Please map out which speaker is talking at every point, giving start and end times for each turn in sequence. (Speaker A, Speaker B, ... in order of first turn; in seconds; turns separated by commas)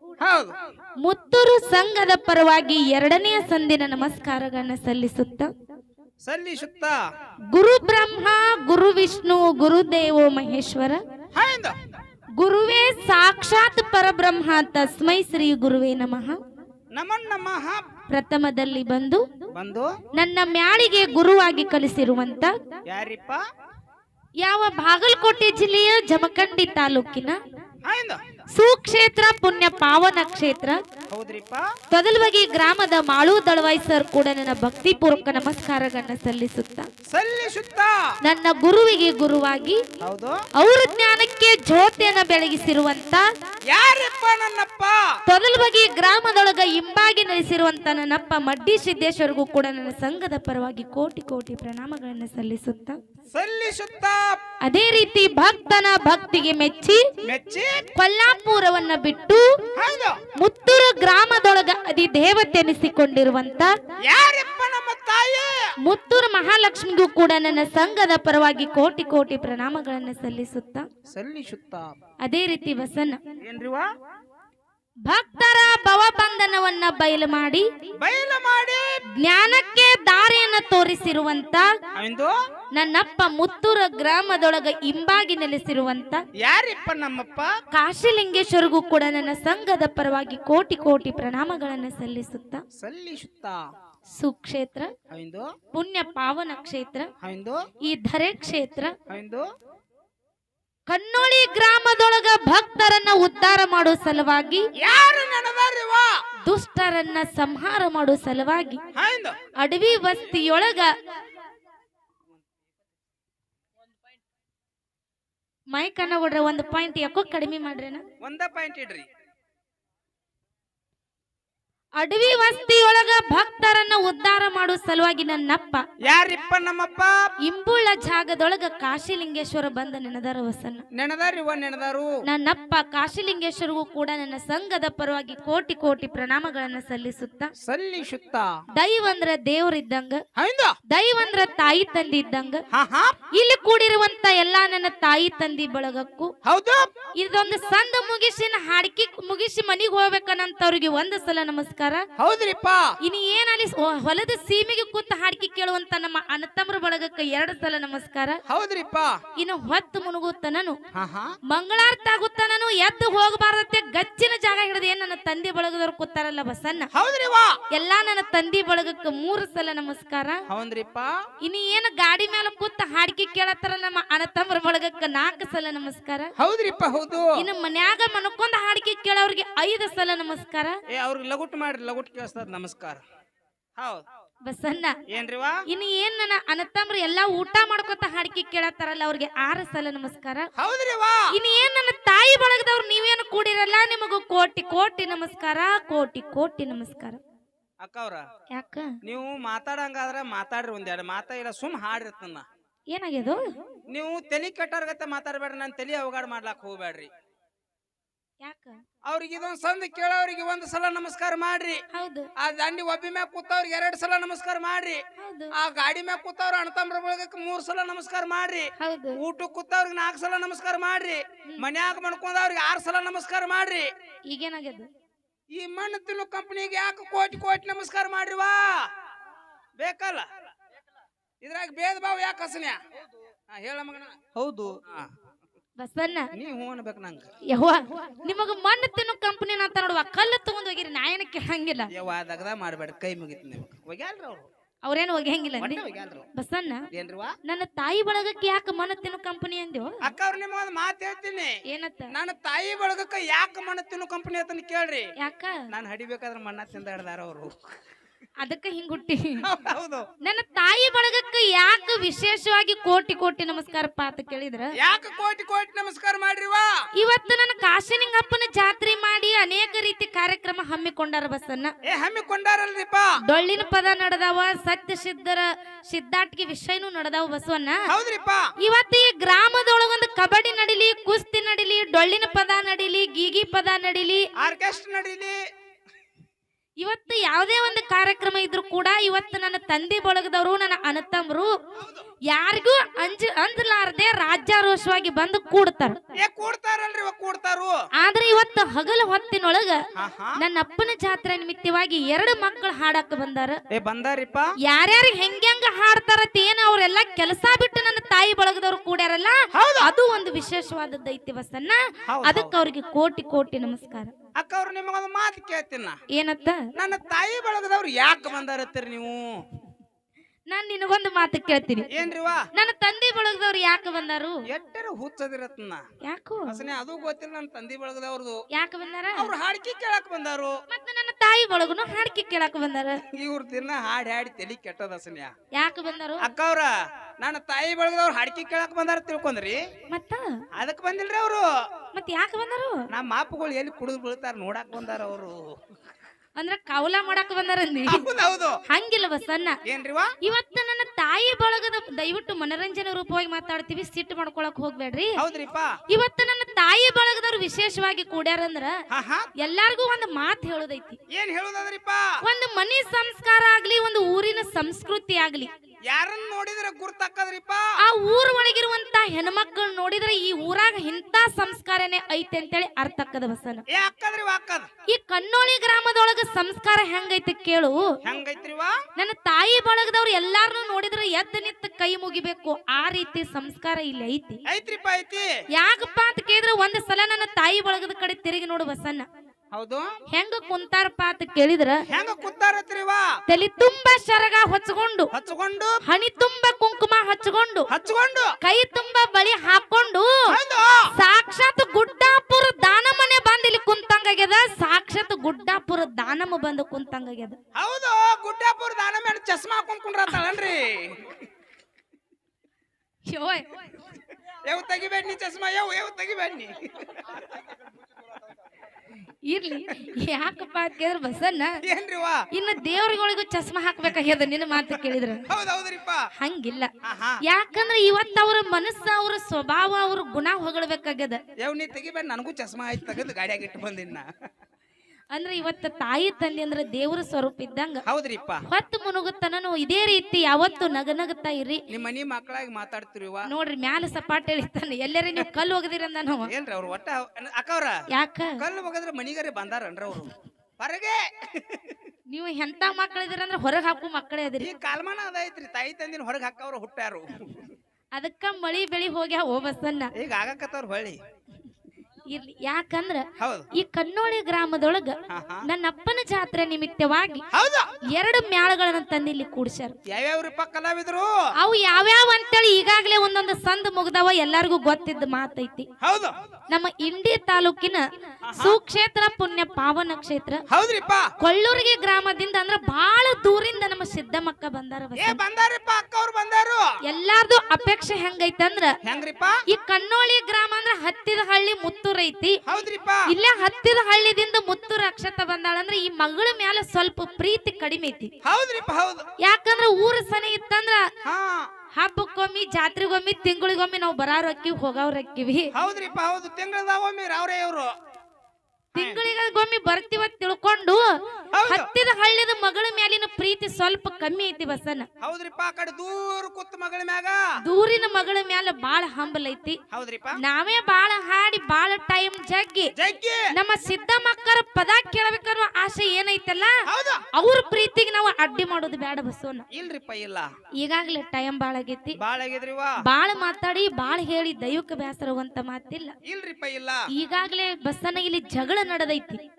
Speaker A: 0.2-0.5, Speaker B: 1.0-5.5, Speaker A: 6.2-6.9, Speaker B: 7.5-11.0, Speaker A: 11.3-11.8, Speaker B: 12.4-16.4, Speaker A: 16.9-17.8, Speaker B: 18.1-19.2, Speaker A: 19.6-19.9, Speaker B: 20.1-22.5, Speaker A: 22.9-23.4, Speaker B: 24.4-27.4, Speaker A: 27.8-28.2, Speaker B: 28.6-30.8, Speaker A: 31.1-31.6, Speaker B: 31.9-36.9, Speaker A: 37.1-37.9, Speaker B: 38.2-39.8, Speaker A: 40.0-40.4, Speaker B: 40.6-43.2, Speaker A: 43.7-45.0, Speaker B: 45.3-53.0, Speaker A: 53.3-54.4, Speaker B: 54.6-57.0, Speaker A: 57.2-57.9, Speaker B: 58.0-59.4, Speaker A: 59.7-60.2, Speaker B: 60.4-63.7, Speaker A: 64.0-65.5, Speaker B: 65.8-70.8, Speaker A: 71.1-71.9, Speaker B: 72.2-73.2, Speaker A: 73.4-73.8, Speaker B: 75.0-77.6, Speaker A: 78.0-78.8, Speaker B: 79.2-81.7, Speaker A: 81.9-82.3, Speaker B: 82.8-86.2, Speaker A: 86.4-87.5, Speaker B: 87.7-92.6, Speaker A: 92.8-93.6, Speaker B: 94.2-94.9, Speaker A: 95.1-95.5, Speaker B: 95.7-97.1, Speaker A: 97.2-97.6, Speaker B: 97.8-98.9, Speaker A: 99.1-99.4, Speaker B: 100.9-104.6, Speaker A: 104.8-106.1, Speaker B: 106.4-108.8, Speaker A: 108.9-109.3, Speaker B: 109.6-110.9, Speaker B: 115.7-118.0, Speaker A: 118.2-119.0, Speaker B: 122.0-125.8, Speaker A: 126.0-127.1, Speaker B: 127.5-130.8, Speaker A: 130.9-132.1, Speaker B: 132.2-137.5, Speaker A: 137.6-138.5, Speaker B: 138.8-140.2, Speaker A: 140.3-140.8, Speaker B: 140.9-142.6, Speaker A: 142.7-143.2, Speaker B: 143.3-146.3, Speaker A: 146.4-146.9, Speaker B: 147.2-152.0, Speaker A: 152.2-152.8, Speaker B: 153.0-158.4, Speaker A: 158.5-159.1, Speaker B: 159.4-160.8, Speaker A: 160.9-161.3, Speaker B: 161.5-166.9, Speaker A: 166.9-167.5, Speaker B: 167.7-170.4, Speaker A: 170.5-171.1, Speaker B: 171.4-176.3, Speaker A: 176.4-177.3, Speaker B: 177.4-180.8, Speaker A: 180.9-183.0, Speaker A: 183.8-184.0, Speaker B: 184.4-184.9, Speaker A: 185.1-185.6, Speaker B: 185.7-190.5, Speaker A: 190.6-191.3, Speaker B: 191.3-197.2, Speaker A: 197.8-198.2, Speaker B: 198.5-198.9, Speaker A: 199.0-202.4, Speaker B: 202.9-203.5, Speaker A: 203.9-207.1, Speaker B: 208.4-208.8, Speaker A: 209.1-211.8, Speaker B: 211.9-212.3, Speaker A: 212.4-215.0, Speaker B: 215.2-215.5, Speaker A: 215.6-223.9, Speaker B: 218.8-219.2, Speaker B: 224.3-224.9, Speaker A: 225.5-228.8, Speaker A: 229.8-230.2, Speaker A: 231.4-232.8, Speaker A: 233.5-235.1, Speaker B: 235.8-236.3, Speaker A: 236.3-237.3, Speaker B: 237.5-241.9, Speaker A: 241.9-244.5, Speaker B: 244.8-245.8, Speaker A: 245.6-246.3, Speaker B: 246.3-246.8, Speaker A: 246.9-247.4, Speaker B: 247.4-250.1, Speaker A: 250.0-251.6, Speaker B: 251.7-252.1, Speaker A: 252.1-255.1, Speaker B: 255.2-255.7, Speaker A: 255.7-257.5, Speaker B: 258.4-259.4, Speaker A: 259.4-260.0, Speaker B: 260.2-264.7, Speaker A: 264.8-266.7, Speaker B: 267.0-271.7, Speaker A: 271.9-273.1, Speaker B: 273.3-277.8, Speaker A: 277.9-278.4, Speaker B: 278.6-284.2, Speaker A: 284.4-285.4, Speaker B: 286.8-291.5, Speaker B: 292.3-296.0, Speaker A: 296.2-297.8, Speaker B: 298.0-299.8, Speaker A: 299.9-300.4, Speaker B: 300.4-303.6, Speaker A: 303.7-304.5, Speaker B: 304.6-314.1, Speaker A: 309.5-309.9, Speaker A: 312.1-312.5, Speaker A: 314.4-316.0, Speaker B: 316.1-316.6, Speaker A: 316.8-319.4, Speaker B: 320.5-321.9, Speaker A: 321.9-322.5, Speaker B: 322.5-324.4, Speaker A: 324.5-325.8, Speaker B: 326.0-326.6, Speaker A: 326.5-328.4, Speaker B: 328.5-329.3, Speaker A: 329.1-330.6, Speaker B: 330.7-333.0, Speaker A: 333.1-335.3, Speaker B: 335.5-336.3, Speaker A: 336.2-339.6, Speaker B: 339.9-340.4, Speaker A: 340.5-341.4, Speaker B: 341.9-342.8, Speaker A: 342.9-345.6, Speaker B: 346.4-348.0, Speaker A: 347.9-348.6, Speaker B: 348.7-349.6, Speaker A: 349.6-350.1, Speaker B: 350.2-355.1, Speaker A: 355.2-355.7, Speaker B: 355.9-358.7, Speaker A: 358.9-359.3, Speaker B: 359.4-361.0, Speaker A: 361.1-362.1, Speaker B: 362.2-365.5, Speaker A: 365.9-367.7, Speaker B: 367.8-373.6, Speaker A: 373.7-374.7, Speaker B: 374.9-377.9, Speaker A: 378.0-378.7, Speaker B: 379.0-384.4, Speaker A: 384.5-385.3, Speaker B: 385.6-389.1, Speaker A: 389.5-389.9, Speaker B: 390.1-391.8, Speaker A: 391.9-393.1, Speaker B: 393.3-395.1, Speaker A: 395.1-395.8, Speaker B: 395.8-397.7, Speaker A: 397.7-398.3, Speaker B: 398.4-400.2, Speaker A: 400.3-400.9, Speaker B: 400.9-407.4, Speaker A: 407.5-411.2, Speaker B: 410.1-410.4, Speaker B: 413.1-413.5, Speaker A: 414.4-417.3, Speaker B: 419.2-421.5, Speaker A: 421.6-422.2, Speaker B: 422.3-425.3, Speaker A: 424.7-426.1, Speaker B: 426.2-426.7, Speaker A: 426.8-427.2, Speaker B: 427.2-431.2, Speaker A: 431.4-434.1, Speaker B: 435.1-437.8, Speaker A: 437.9-438.4, Speaker B: 438.5-441.6, Speaker A: 441.7-443.3, Speaker B: 443.2-446.3, Speaker A: 446.3-447.8, Speaker B: 447.9-448.4, Speaker A: 448.4-451.8, Speaker B: 452.1-454.5, Speaker A: 454.4-457.5, Speaker B: 457.9-459.9, Speaker A: 459.9-461.0, Speaker B: 462.1-467.2, Speaker A: 463.2-463.5, Speaker A: 465.1-465.4, Speaker A: 467.3-467.7, Speaker B: 467.9-469.8, Speaker A: 469.9-471.1, Speaker B: 471.4-475.7, Speaker A: 475.8-476.1, Speaker B: 476.5-477.8, Speaker A: 478.2-478.6, Speaker B: 478.3-480.4, Speaker A: 480.5-481.1, Speaker B: 481.2-485.2, Speaker A: 484.9-486.6, Speaker B: 486.9-488.7, Speaker A: 488.8-489.4, Speaker B: 489.5-492.4, Speaker A: 492.4-493.1, Speaker B: 493.1-498.1, Speaker A: 498.2-499.1, Speaker B: 499.2-500.9, Speaker A: 501.0-501.5, Speaker B: 501.8-505.5, Speaker A: 505.5-507.7, Speaker B: 508.7-510.8, Speaker A: 508.7-509.0, Speaker A: 511.3-511.7, Speaker B: 511.5-514.9, Speaker A: 515.0-517.2, Speaker B: 517.4-519.6, Speaker A: 519.7-520.2, Speaker B: 520.2-522.7, Speaker A: 522.8-523.3, Speaker B: 523.3-526.6, Speaker A: 526.7-527.0, Speaker B: 527.1-529.5, Speaker A: 529.5-530.3, Speaker B: 530.6-532.0, Speaker A: 532.0-532.7, Speaker B: 532.8-535.9, Speaker A: 536.0-536.8, Speaker B: 536.9-539.2